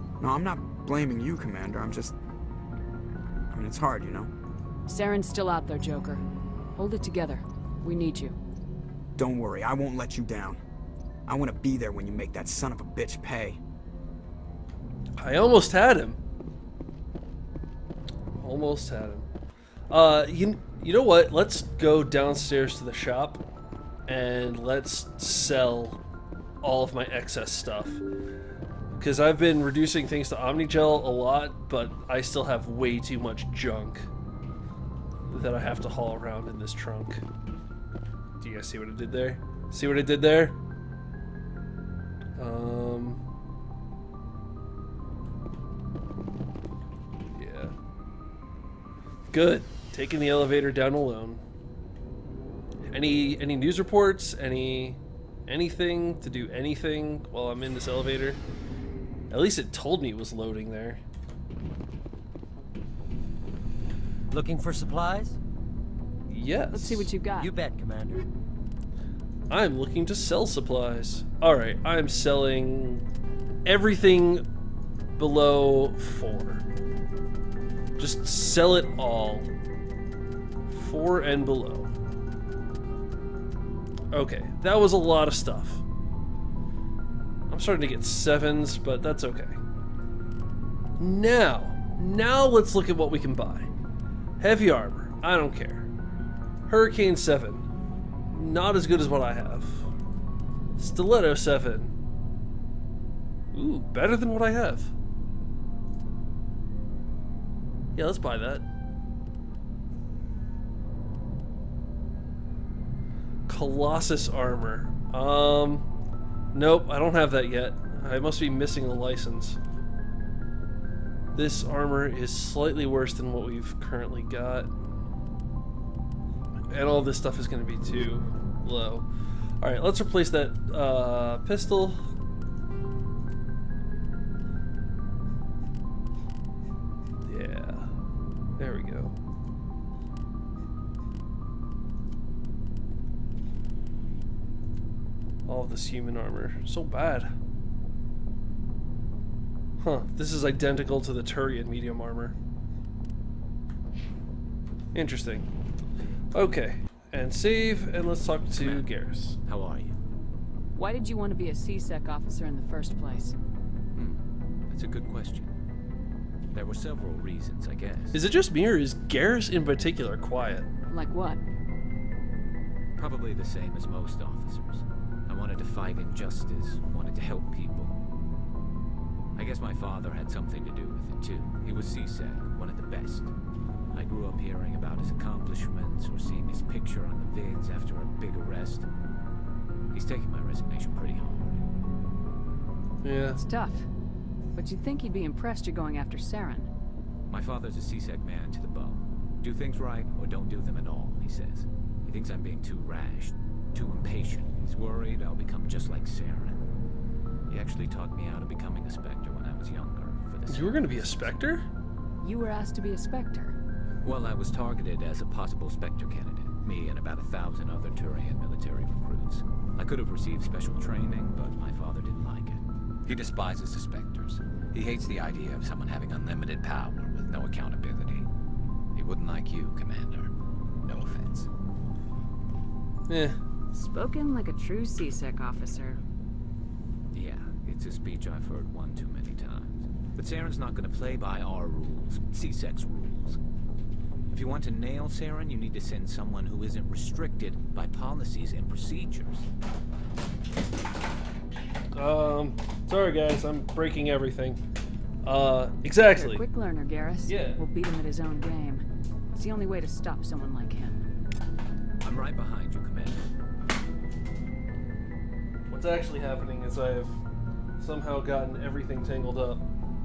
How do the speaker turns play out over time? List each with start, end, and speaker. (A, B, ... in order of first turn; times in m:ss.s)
0:00.2-0:02.1 A
0:03.5-0:04.3 A
0:04.9-0:06.2 B
0:06.8-0:08.4 B
0:09.2-0:10.6 A
0:11.3-0:13.6 A
0:15.2-0:16.2 C
0:18.4-0:19.3 C
0:19.9-0:23.4 C
0:24.1-0:26.0 C
0:26.6-0:28.0 C
0:29.0-0:34.1 C
0:35.3-0:37.2 C
0:38.4-0:40.6 C
0:42.4-0:43.2 C
0:47.3-0:47.7 C
0:49.3-0:51.4 C
0:52.9-0:58.4 C
0:59.3-1:01.0 C
1:04.3-1:05.4 D
1:06.3-1:07.1 C
1:06.7-1:07.5 B
1:07.4-1:08.2 D
1:09.5-1:13.0 C
1:13.6-1:14.4 C
1:15.2-1:16.6 C
1:18.0-1:19.5 C
1:20.7-1:21.9 C
1:24.1-1:25.8 C
1:27.5-1:29.6 C
1:31.0-1:33.7 C
1:34.4-1:35.9 C
1:36.7-1:37.6 C
1:38.3-1:39.9 C
1:40.8-1:41.9 C
1:43.5-1:44.9 C
1:48.0-1:48.6 C
1:53.5-1:55.8 C
1:56.5-1:59.6 C
2:01.3-2:04.7 C
2:06.7-2:09.0 C
2:09.6-2:12.0 C
2:17.2-2:17.9 C
2:18.6-2:19.1 C
2:25.5-2:27.3 C
2:29.8-2:32.3 C
2:34.9-2:35.5 C
2:36.3-2:39.4 C
2:38.6-2:38.9 E
2:39.4-2:40.0 E
2:40.7-2:43.3 B
2:43.9-2:45.5 E
2:46.5-2:48.2 E
2:48.1-2:50.7 C
2:50.9-2:51.4 B
2:53.0-2:58.0 E
2:59.4-3:03.3 E
3:03.9-3:08.9 E
3:09.9-3:11.6 E
3:13.0-3:13.4 C
3:13.3-3:13.9 B
3:14.6-3:16.7 B
3:17.3-3:26.6 E
3:27.5-3:31.4 E
3:30.5-3:31.6 C
3:32.2-3:33.5 B
3:34.0-3:48.3 E
3:48.9-3:51.5 E
3:53.1-3:53.4 C
3:53.7-3:56.0 B
3:57.1-4:03.4 E
4:04.3-4:09.5 E
4:11.9-4:14.6 C
4:15.2-4:16.4 C
4:16.1-4:21.0 B
4:17.3-4:17.6 C
4:22.0-4:23.2 E
4:25.7-4:27.2 C
4:27.8-4:29.6 C